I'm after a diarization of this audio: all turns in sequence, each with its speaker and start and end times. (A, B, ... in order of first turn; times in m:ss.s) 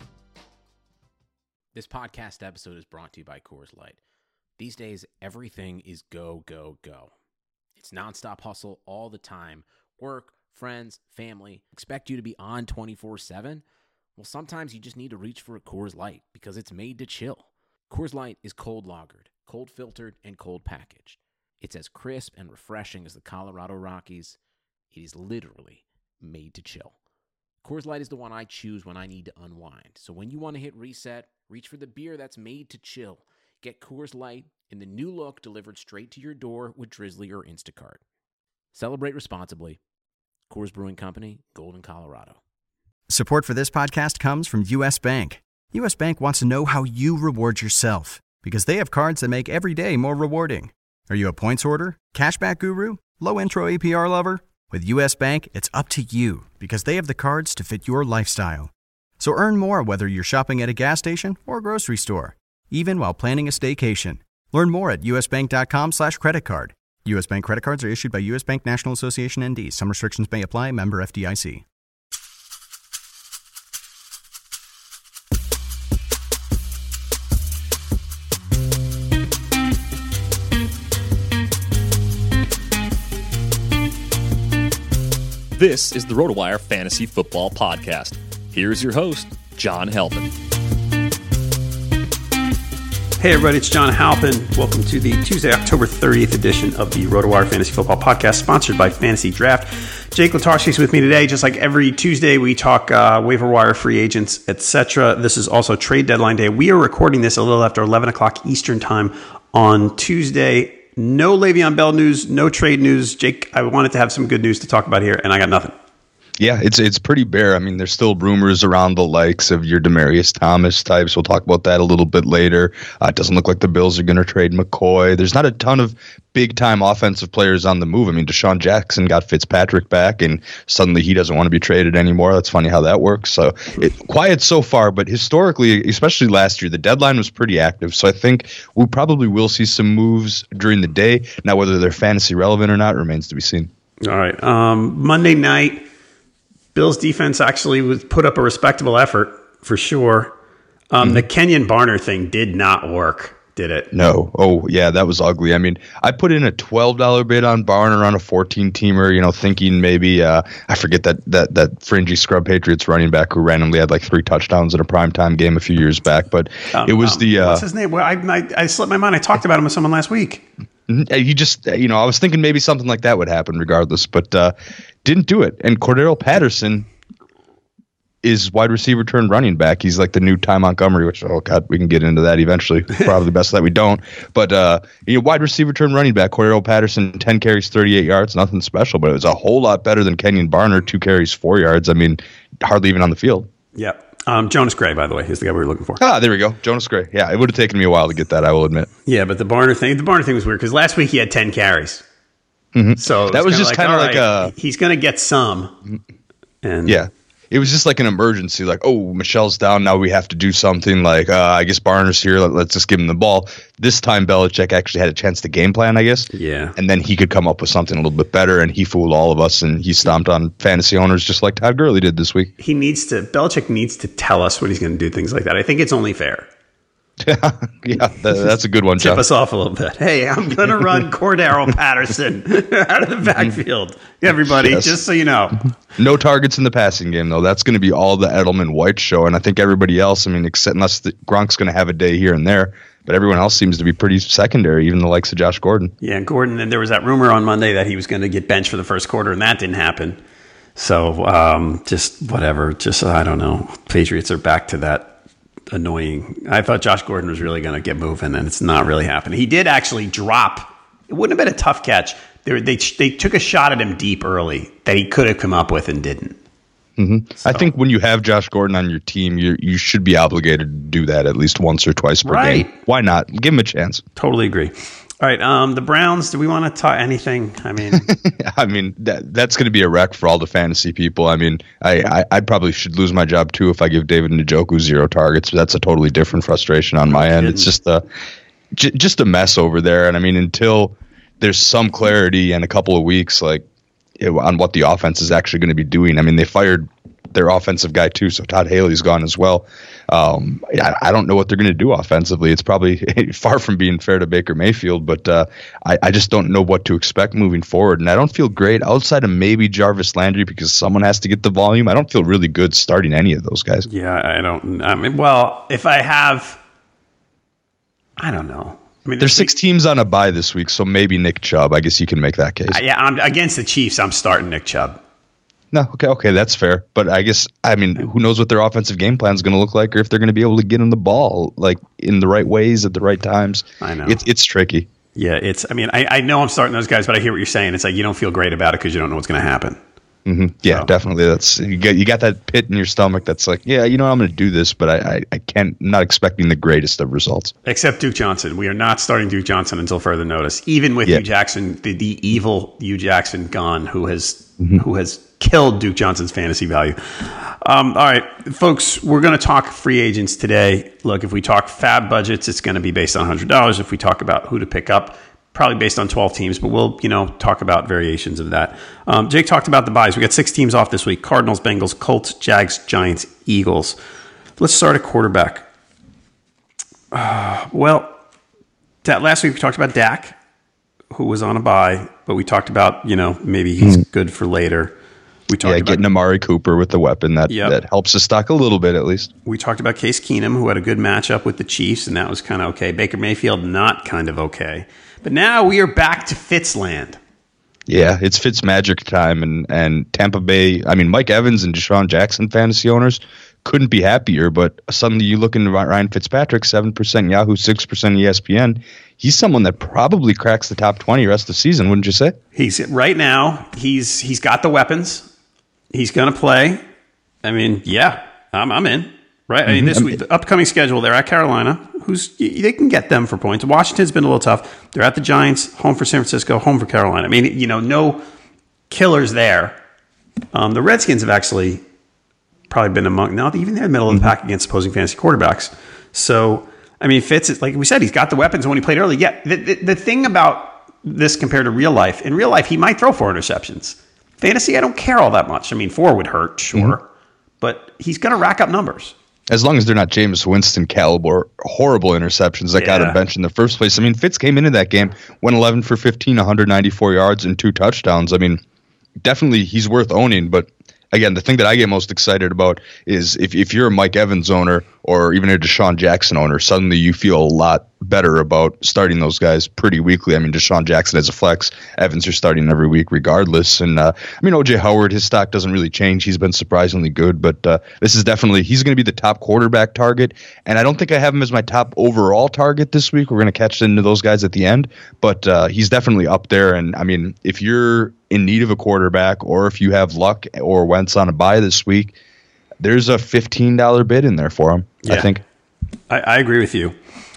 0:01.7-0:04.0 A
0:04.6-0:07.1 A
0:07.8-0:13.6 A
0:14.2-0:24.4 A
0:24.9-0:27.0 A
0:27.6-0:38.0 A
0:38.7-0:39.8 A
0:40.5-0:42.4 A
0:43.1-1:11.6 B
1:25.6-1:30.4 C
1:33.2-1:55.8 D
1:56.4-2:23.7 E
2:24.0-2:25.8 D
2:26.8-2:30.3 D
2:30.9-2:33.9 D
2:33.9-2:47.6 E
2:46.7-2:50.5 D
2:50.9-2:56.9 E
2:58.2-3:13.5 E
3:13.8-3:16.0 D
3:16.0-3:18.9 E
3:19.1-3:22.0 D
3:22.7-3:24.5 E
3:23.0-3:25.8 D
3:26.6-3:27.0 D
3:26.9-3:42.5 E
3:36.3-3:36.8 D
3:42.6-3:46.5 D
3:47.2-3:49.2 E
3:49.0-3:55.7 D
3:54.5-3:55.0 E
3:56.0-4:05.9 E
4:06.0-4:10.2 D
4:10.8-4:15.2 D
4:15.7-4:26.4 D
4:27.0-4:34.0 E
4:27.4-4:27.7 D
4:32.2-4:32.7 D
4:34.2-4:38.1 D
4:38.1-4:48.0 E
4:47.1-4:47.7 D
4:48.8-4:53.6 E
4:54.2-5:13.9 E
5:13.9-5:16.6 D
5:18.2-5:19.5 D
5:19.2-5:22.8 E
5:22.7-5:25.0 D
5:25.7-5:34.9 E
5:33.8-5:34.2 D
5:35.2-5:39.8 D
5:40.3-5:47.5 E
5:40.7-5:40.9 D
5:47.6-6:14.0 D
6:14.6-6:15.7 D
6:17.1-6:18.2 D
6:19.0-6:20.4 D
6:21.1-6:25.0 D
6:25.5-6:26.0 D
6:25.6-6:29.3 E
6:27.5-6:27.8 D
6:29.5-6:37.2 D
6:37.9-6:52.4 E
6:52.6-6:55.3 D
6:55.9-6:56.8 D
6:57.4-7:08.2 D
6:59.7-7:00.2 E
7:08.9-7:09.8 D
7:10.5-7:11.8 D
7:12.7-7:27.0 D
7:27.6-7:29.2 D
7:29.5-7:38.6 E
7:32.8-7:33.2 D
7:39.2-8:12.2 E
8:12.8-8:15.4 E
8:16.1-8:17.0 D